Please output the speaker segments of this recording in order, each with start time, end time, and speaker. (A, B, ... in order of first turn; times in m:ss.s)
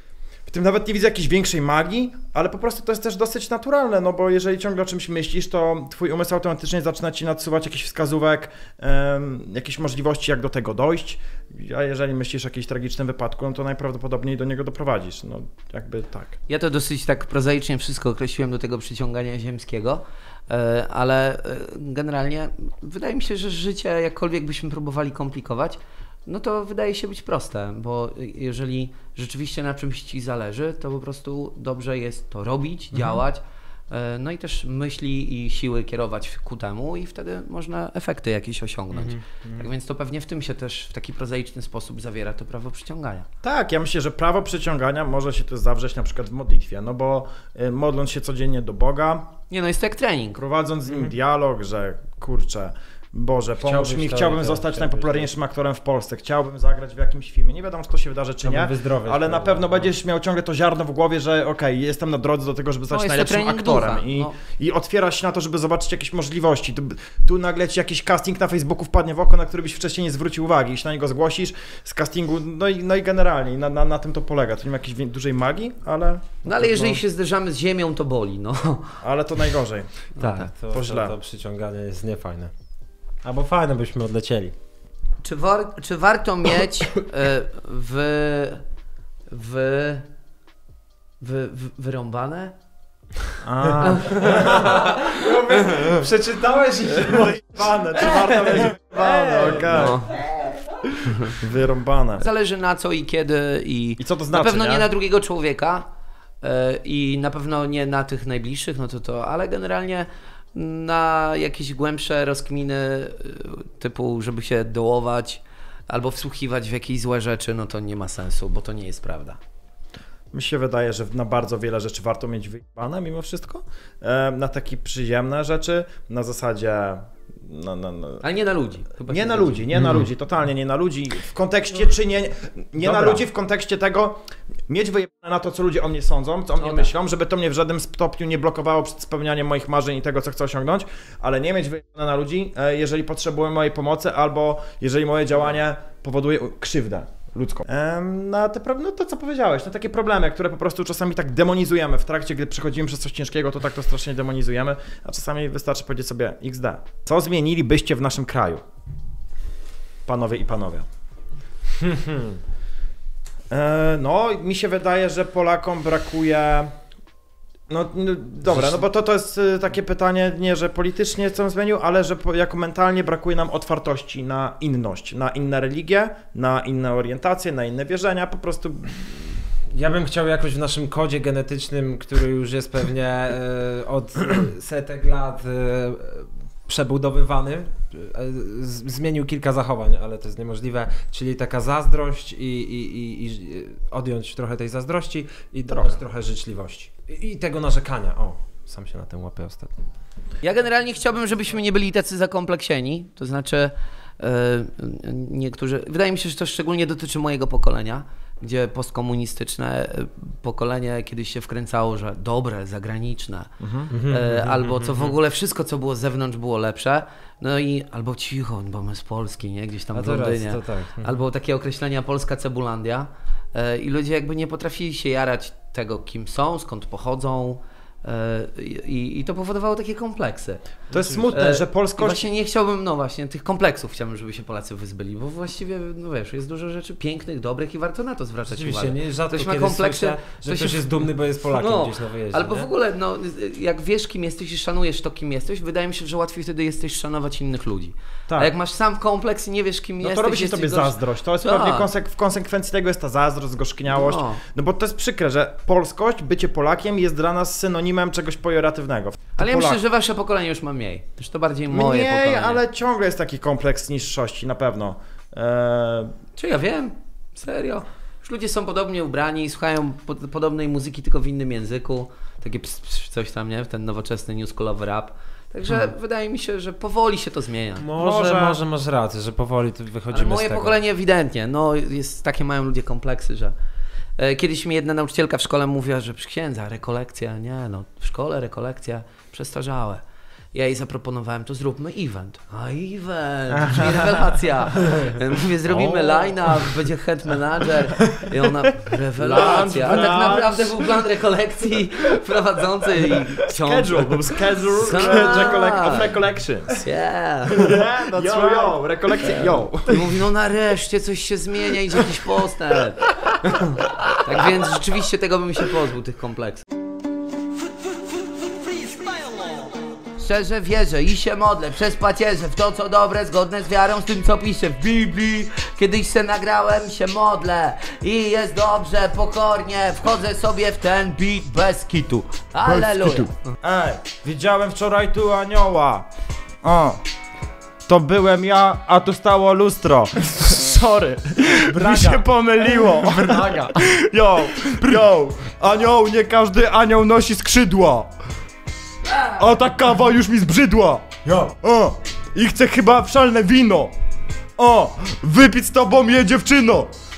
0:00.5-0:16.4 A
0:16.5-0:43.3 B
0:32.9-0:33.2 C
0:38.9-0:39.7 C
0:43.4-0:49.3 A
0:49.5-0:50.4 B
0:50.4-1:17.0 A
0:53.6-0:55.3 C
0:58.4-0:59.9 C
1:02.9-1:04.3 B
1:16.4-1:19.0 B
1:16.6-1:16.9 C
1:19.0-1:20.0 A
1:20.2-1:20.5 B
1:20.2-1:22.5 C
1:20.6-1:21.2 A
1:23.2-1:24.5 C
1:25.2-1:28.6 B
1:29.3-1:30.0 B
1:31.2-1:32.5 B
1:33.4-1:34.8 A
1:33.9-1:34.4 B
1:34.2-1:40.0 C
1:37.1-1:40.0 A
1:39.7-1:40.2 B
1:41.3-1:42.2 A
1:42.2-1:45.9 B
1:44.0-1:44.9 A
1:46.4-1:59.4 B
2:00.3-2:08.2 A
2:08.2-2:09.7 B
2:09.1-2:38.6 A
2:09.8-2:10.0 C
2:12.8-2:13.2 C
2:16.6-2:16.9 B
2:40.1-2:40.8 A
2:41.8-2:42.4 C
2:43.5-2:46.7 A
2:47.7-2:59.4 A
2:48.5-2:48.8 C
2:59.7-3:19.7 C
3:15.7-3:16.0 A
3:20.4-3:33.5 B
3:33.6-3:33.9 A
3:33.9-3:35.2 C
3:34.0-3:50.6 B
3:39.9-3:41.2 C
3:50.9-3:52.3 A
3:50.9-3:51.4 C
3:51.3-4:11.9 B
3:58.5-4:02.7 C
4:10.0-4:19.8 A
4:13.9-4:14.4 B
4:19.4-4:22.6 B
4:21.7-4:26.1 A
4:26.4-4:37.9 B
4:37.8-4:40.8 C
4:38.0-4:38.6 A
4:40.1-4:43.5 B
4:44.2-4:50.0 B
4:50.5-5:04.2 B
4:53.6-4:54.2 C
4:54.8-4:55.1 C
4:55.7-4:56.7 C
4:58.0-4:58.3 C
4:59.2-5:00.5 C
4:59.2-5:00.9 A
5:03.6-5:06.8 A
5:04.8-5:06.2 B
5:06.8-5:07.7 B
5:07.6-5:10.2 A
5:08.1-5:08.8 C
5:09.3-5:16.6 B
5:20.2-5:33.4 B
5:32.6-5:36.1 A
5:36.6-5:37.0 A
5:37.9-5:48.1 A
5:41.7-5:43.9 C
5:49.1-5:49.4 B
5:49.4-5:53.9 A
5:51.2-5:51.5 C
5:54.6-5:56.9 A